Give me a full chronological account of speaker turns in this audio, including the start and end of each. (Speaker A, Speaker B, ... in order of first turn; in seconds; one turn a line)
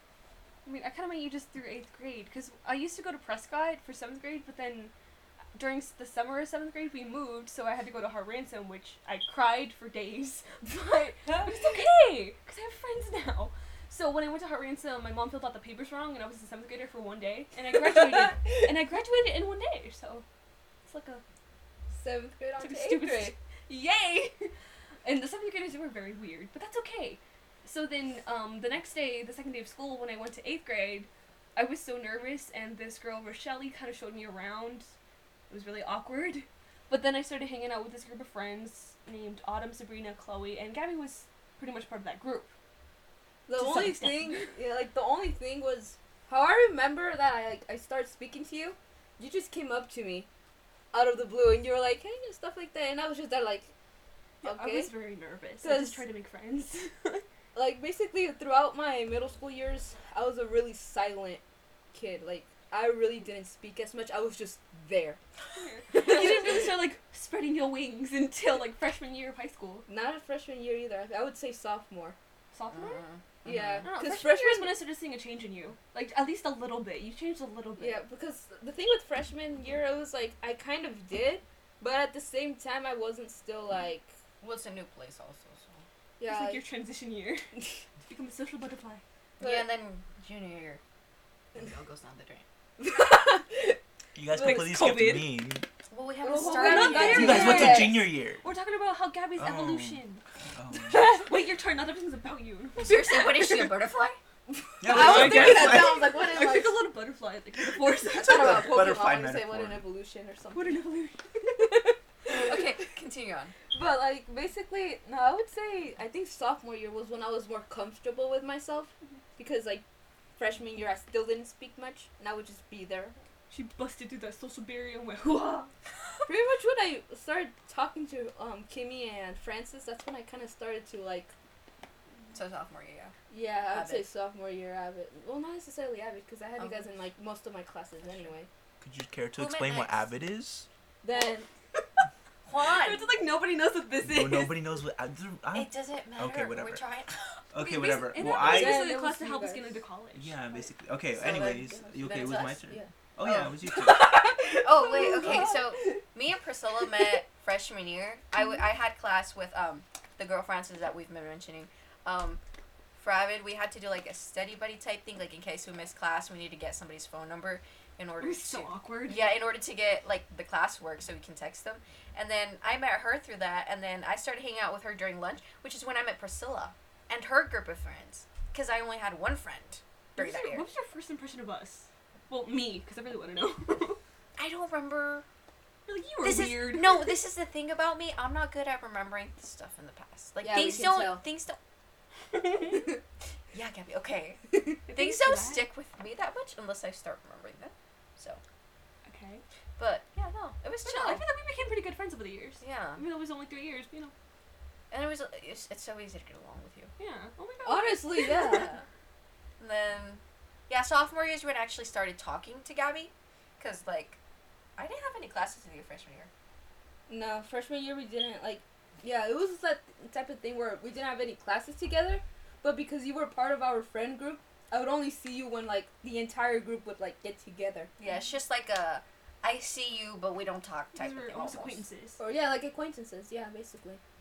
Speaker A: 0.7-4.9
Speaker A: 5.5-20.2
Speaker B: 11.3-11.5
Speaker B: 17.7-18.6
Speaker A: 20.9-21.2
Speaker B: 21.9-23.3
Speaker A: 22.6-24.5
Speaker A: 25.0-34.9
Speaker A: 35.5-42.5
Speaker B: 43.5-50.3
Speaker A: 43.5-44.5
Speaker B: 50.9-53.7
Speaker A: 54.4-57.2
Speaker B: 54.4-54.9
Speaker B: 55.6-56.0
Speaker B: 57.5-61.4
Speaker B: 61.9-65.2
Speaker A: 65.6-69.8
Speaker B: 65.9-66.7
Speaker B: 69.9-72.2
Speaker A: 72.5-73.0
Speaker C: 72.7-73.9
Speaker B: 73.4-74.8
Speaker A: 73.8-78.0
Speaker B: 77.8-84.1
Speaker C: 84.4-85.8
Speaker B: 86.2-86.6
Speaker A: 86.3-87.5
Speaker A: 88.1-89.0
Speaker B: 89.4-89.7
Speaker C: 89.4-90.8
Speaker C: 91.5-92.4
Speaker B: 92.8-93.8
Speaker D: 94.2-95.7
Speaker B: 94.3-94.7
Speaker A: 94.3-95.3
Speaker C: 95.9-97.9
Speaker B: 96.2-98.0
Speaker A: 96.3-100.2
Speaker D: 97.1-98.4
Speaker D: 99.4-100.0
Speaker D: 100.6-101.1
Speaker B: 100.9-101.3
Speaker A: 100.9-103.7
Speaker C: 102.8-104.2
Speaker B: 104.5-106.8
Speaker D: 104.8-106.1
Speaker A: 104.8-108.7
Speaker D: 108.1-109.8
Speaker B: 108.2-110.8
Speaker A: 110.5-111.2
Speaker B: 111.4-112.6
Speaker C: 112.3-113.5
Speaker B: 113.7-119.8
Speaker B: 120.4-123.2
Speaker A: 123.5-125.7
Speaker B: 126.3-131.3
Speaker C: 132.3-133.2
Speaker B: 133.3-138.5
Speaker C: 133.7-134.1
Speaker C: 136.6-136.8
Speaker D: 138.8-140.7
Speaker C: 139.4-140.1
Speaker B: 141.0-141.5
Speaker C: 142.4-143.1
Speaker A: 142.6-144.7
Speaker D: 144.0-146.8
Speaker C: 145.5-147.2
Speaker D: 147.5-148.8
Speaker A: 147.6-150.4
Speaker B: 148.2-149.8
Speaker D: 150.2-154.3
Speaker C: 151.1-152.6
Speaker B: 151.9-152.9
Speaker C: 153.2-153.5
Speaker B: 153.6-156.0
Speaker C: 154.6-162.4
Speaker C: 163.0-180.7
Speaker A: 168.2-169.4
Speaker A: 180.2-184.0
Speaker C: 184.4-185.2
Speaker A: 185.9-187.2
Speaker C: 186.2-191.6
Speaker B: 190.4-191.2
Speaker A: 192.3-192.9
Speaker C: 193.5-198.4
Speaker A: 194.9-195.7
Speaker A: 199.1-199.4
Speaker C: 199.8-201.2
Speaker A: 200.8-204.1
Speaker C: 202.6-203.0
Speaker C: 204.9-206.9
Speaker A: 207.0-208.7
Speaker B: 207.7-208.7
Speaker C: 208.5-208.8
Speaker C: 209.6-214.2
Speaker C: 214.8-216.3
Speaker B: 217.1-227.9
Speaker C: 228.0-231.8
Speaker A: 231.0-232.2
Speaker B: 232.2-234.0